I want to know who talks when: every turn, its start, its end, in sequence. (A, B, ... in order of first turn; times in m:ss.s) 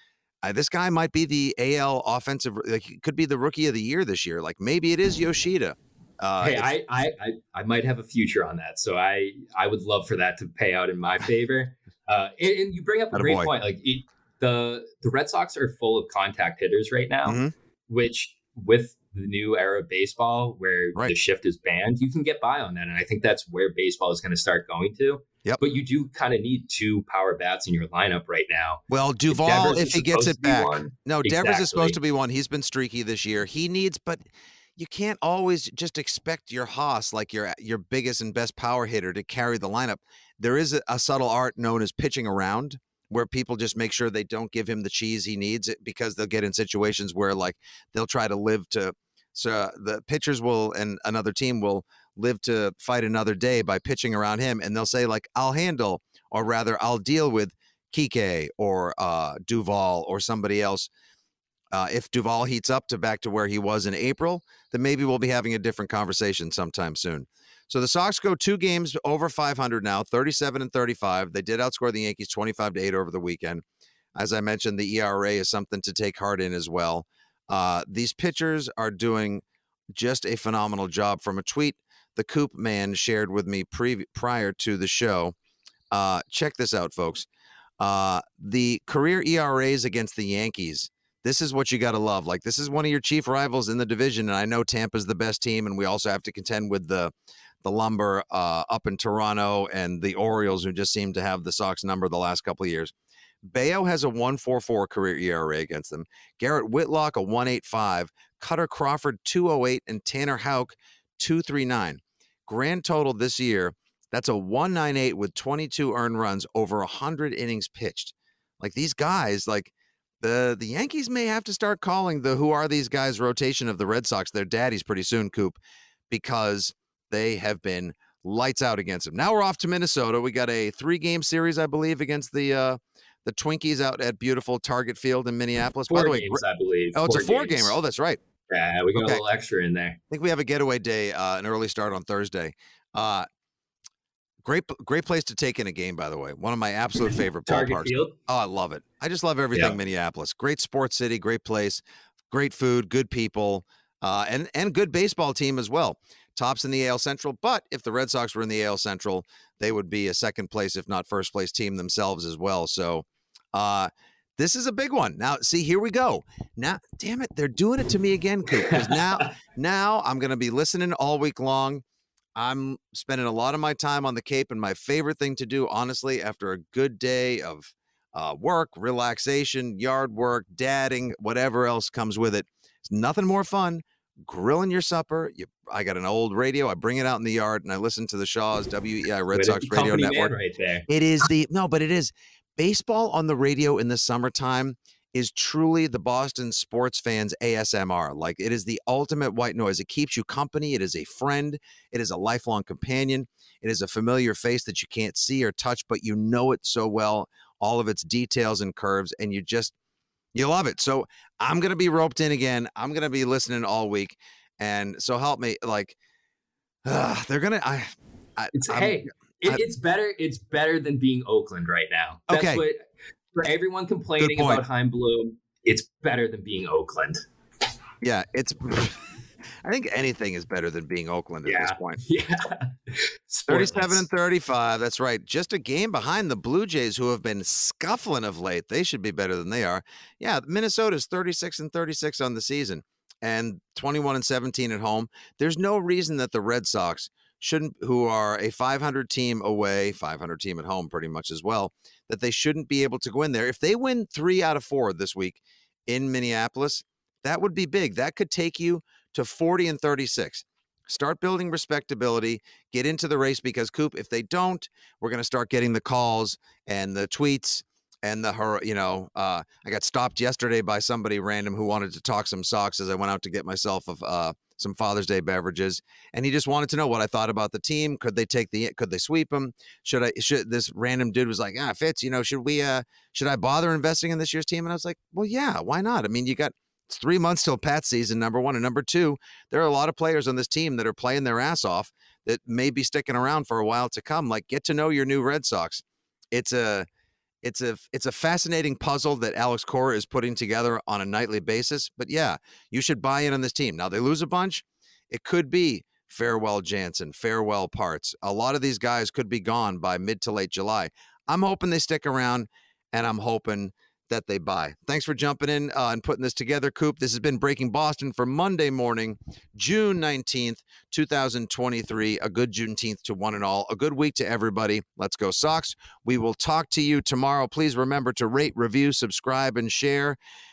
0:00.4-0:06.7 A
0:06.4-0:32.0 B
0:13.1-0:13.5 A
0:17.2-0:17.5 A
0:28.9-0:34.2 A
0:34.8-1:00.9 A
1:01.7-1:13.6 A
1:14.2-1:19.4 A
1:19.9-1:25.4 A
1:25.9-1:27.3 A
1:27.8-2:05.6 A
2:06.1-2:16.4 A
2:15.9-2:17.8 B
2:17.0-2:18.2 A
2:18.5-2:20.0 B
2:19.0-2:19.2 A
2:20.1-2:23.3 A
2:24.4-2:51.8 A
2:27.5-2:28.2 B
2:48.7-2:49.3 B
2:52.4-3:10.3 A
3:09.3-3:10.9 B
3:10.9-3:29.7 A
3:30.4-3:36.0 A
3:36.8-3:39.6 A
3:38.5-3:42.8 B
3:42.3-3:42.6 A
3:43.4-3:47.2 B
3:44.2-3:44.6 A
3:48.0-3:49.0 A
3:49.6-3:52.0 A
3:51.4-3:54.0 B
3:53.5-4:56.9 A
4:57.4-5:30.2 A